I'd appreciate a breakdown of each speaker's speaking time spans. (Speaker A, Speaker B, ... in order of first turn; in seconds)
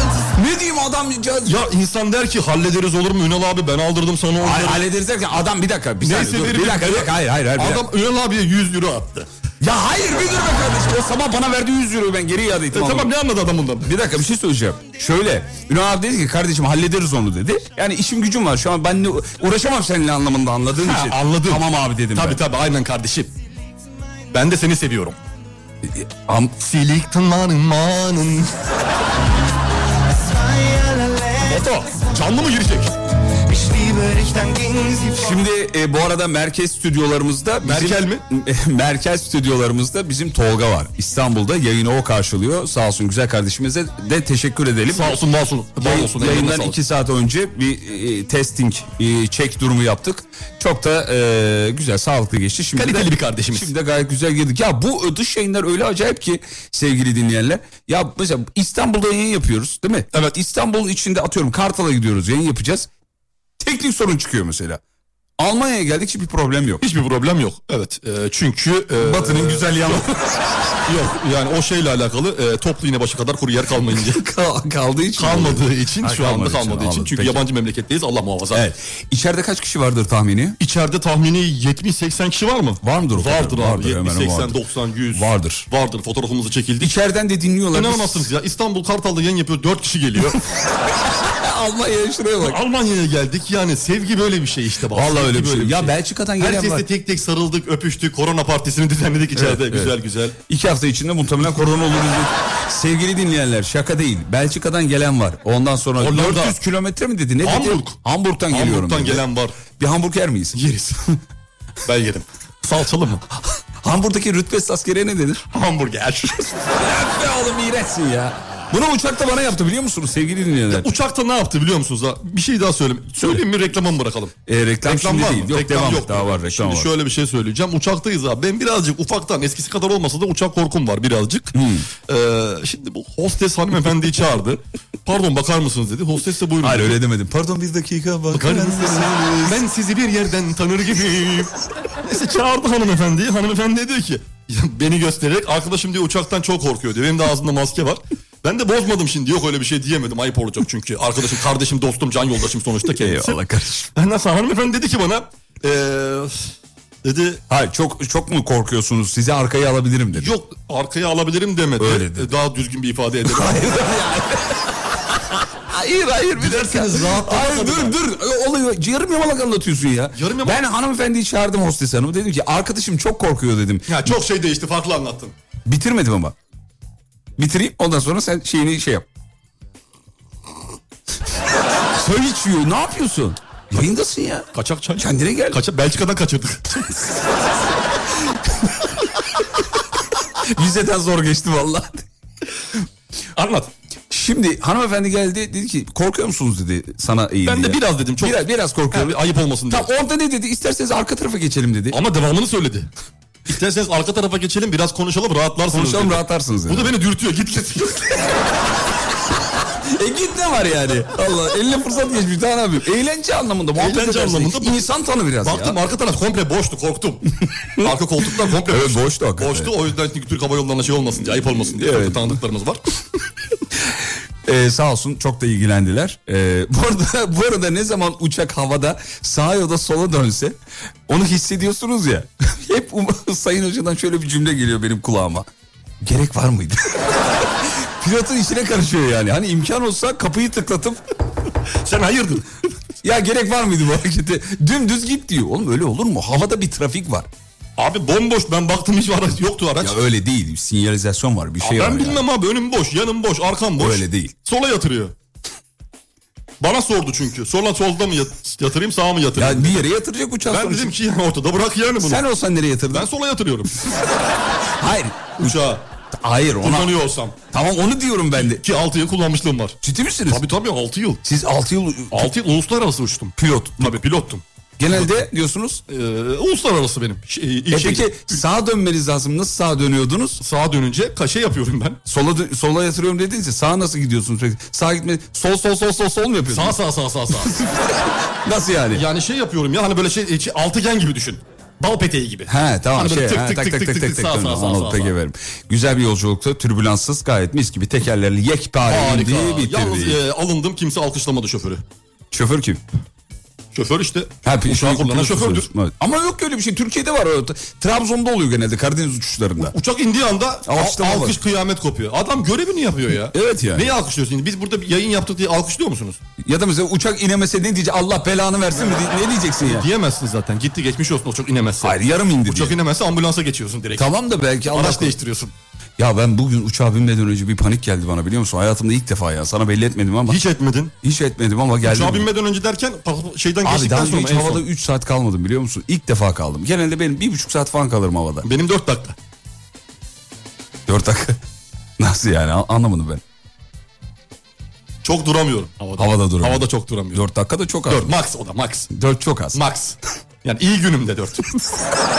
Speaker A: 0.3-1.6, 4.4-7.8, 9.6-13.1, 13.8-22.4, 25.9-26.5, 35.2-45.2, 45.8-62.9, 63.6-64.8, 65.4-66.8, 69.0-70.5, 74.0-77.4, 78.5-80.6, 82.8-84.6, 85.1-85.7, 86.8-88.3, 91.0-92.6, 94.9-96.8, 99.3-99.9, 100.5-110.6, 113.8-115.4, 116.8-120.9, 124.5-126.9, 131.5-131.9, 136.6-139.6, 152.9-153.9, 157.5-160.3, 161.8-162.3, 163.3-174.1, 175.7-176.3, 177.4-179.0, 181.9-185.6, 188.2-188.9, 190.4-192.0, 194.1-202.0, 205.7-206.9, 209.9-215.8, 218.6-219.7, 221.7-222.4, 224.4-230.6, 231.1-235.5, 236.0-241.0, 243.0-247.3, 249.8-252.2, 253.8-254.3, 259.4-260.9, 262.0-263.1, 263.9-264.3, 264.8-265.6, 266.2-266.9, 267.5-268.6, 269.8-270.4, 271.2-272.3, 273.4-274.0, 274.8-275.8, 277.7-280.4, 282.1-286.8, 287.3-289.0, 292.5-300.2, 302.3-302.8, 304.4-309.7, 310.7-311.4, 313.3-313.9, 316.4-319.9, 321.8-322.8, 324.0-325.1, 326.0-330.4, 331.0-332.3, 333.6-338.5, 340.9-341.4, 342.0-343.2, 346.0-348.1, 348.9-349.6
Speaker B: 1.4-4.8, 6.0-9.3, 12.7-13.9, 20.7-23.3, 24.3-25.2, 26.6-28.6, 31.5-32.9, 37.6-38.2, 44.9-46.8, 52.7-53.7, 66.8-70.1, 70.8-74.2, 75.2-78.7, 80.6-86.9, 87.7-90.4, 92.4-100.4, 106.0-106.6, 107.4-108.0, 108.5-109.6, 110.5-111.0, 111.8-113.2, 115.5-116.8, 120.7-124.3, 124.8-137.0, 138.3-153.4, 153.9-156.5, 157.0-157.4, 160.1-163.7, 166.4-168.0, 170.1-170.6, 173.9-175.3, 184.5-187.0, 193.3-193.7, 197.4-199.9, 201.9-202.9, 203.5-208.4, 213.8-214.9, 215.4-217.2, 217.8-222.8, 241.8-242.4, 247.8-250.0, 251.6-255.1, 256.6-259.9, 260.4-262.2, 262.9-263.8, 265.4-265.9, 266.6-267.4, 268.3-271.2, 272.1-275.1, 275.9-278.4, 280.4-282.0, 286.5-287.6, 288.9-295.1, 298.8-301.8, 303.7-305.7, 309.6-316.2, 319.6-324.1, 324.7-325.5, 330.3-330.9, 331.8-334.6, 338.4-339.1, 345.0-347.2, 347.9-348.9, 349.5-351.6
Speaker C: 30.1-32.2, 33.5-35.4